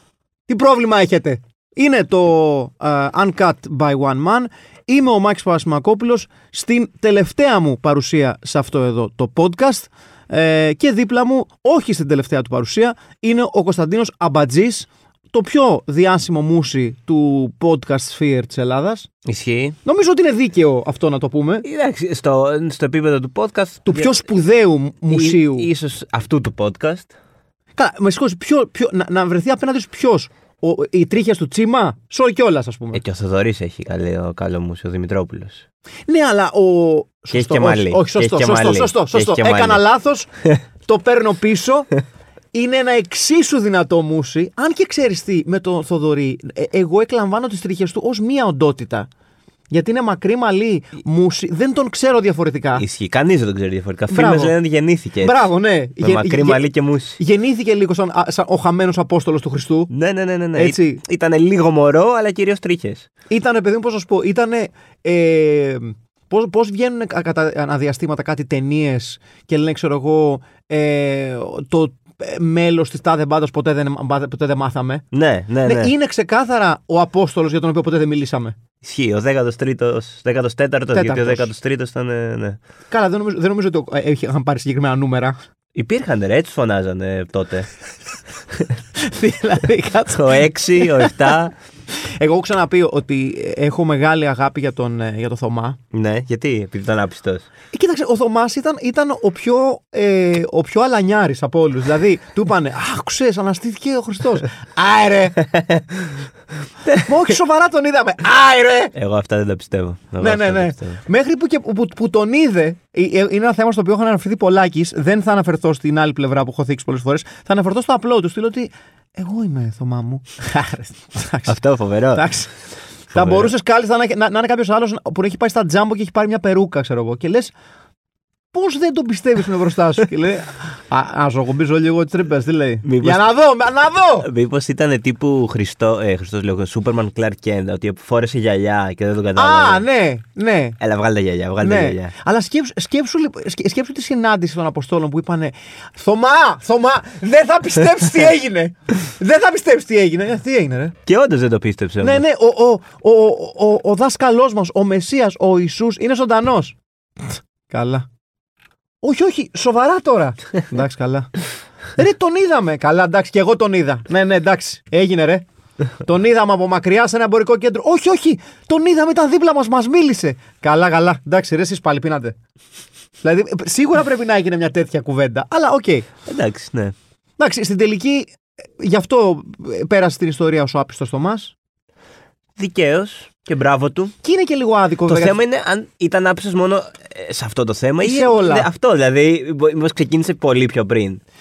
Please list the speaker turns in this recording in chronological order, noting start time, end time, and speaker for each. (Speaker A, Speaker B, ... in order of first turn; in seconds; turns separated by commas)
Speaker A: 0.5-19.1, Speaker B: 19.2-19.8, Speaker A: 19.9-21.6, Speaker B: 21.6-24.1, Speaker A: 23.9-25.7, Speaker B: 25.1-27.1, Speaker A: 27.8-33.0, Speaker B: 32.9-35.6, Speaker A: 36.1-40.3, Speaker B: 37.3-39.8, Speaker A: 40.9-41.9, Speaker A: 42.5-49.1, Speaker A: 49.7-52.9, Speaker B: 52.8-55.4, Speaker A: 54.1-54.5, Speaker A: 55.2-56.6, Speaker B: 56.0-57.2, Speaker A: 57.2-59.9, Speaker B: 59.9-63.1, Speaker A: 60.5-61.0, Speaker A: 63.3-75.0, Speaker B: 75.1-75.9, Speaker A: 75.6-78.6, Speaker B: 78.8-82.6, Speaker A: 80.9-81.5, Speaker A: 82.9-85.4, Speaker B: 85.8-87.7, Speaker A: 89.0-91.3, Speaker B: 90.1-91.5, Speaker A: 91.9-95.8, Speaker B: 95.9-97.5, Speaker A: 97.7-105.5, Speaker B: 105.5-105.8, Speaker A: 107.0-108.9, Speaker B: 109.0-111.0, Speaker A: 110.2-121.6, Speaker B: 121.5-122.2, Speaker A: 122.1-122.5, Speaker A: 123.1-127.5, Speaker B: 123.1-123.5, Speaker A: 128.5-134.3, Speaker B: 132.8-133.2, Speaker B: 134.2-139.8, Speaker A: 139.4-140.8, Speaker B: 140.8-142.1, Speaker A: 141.6-151.0, Speaker B: 151.1-152.2, Speaker A: 152.0-156.8, Speaker A: 157.7-158.1, Speaker A: 159.0-161.3, Speaker A: 162.0-165.4, Speaker A: 166.0-172.3, Speaker A: 173.2-176.1, Speaker B: 176.3-176.9, Speaker A: 177.4-181.5, Speaker B: 182.6-184.1, Speaker A: 184.2-185.4, Speaker B: 185.1-191.2, Speaker A: 188.0-188.7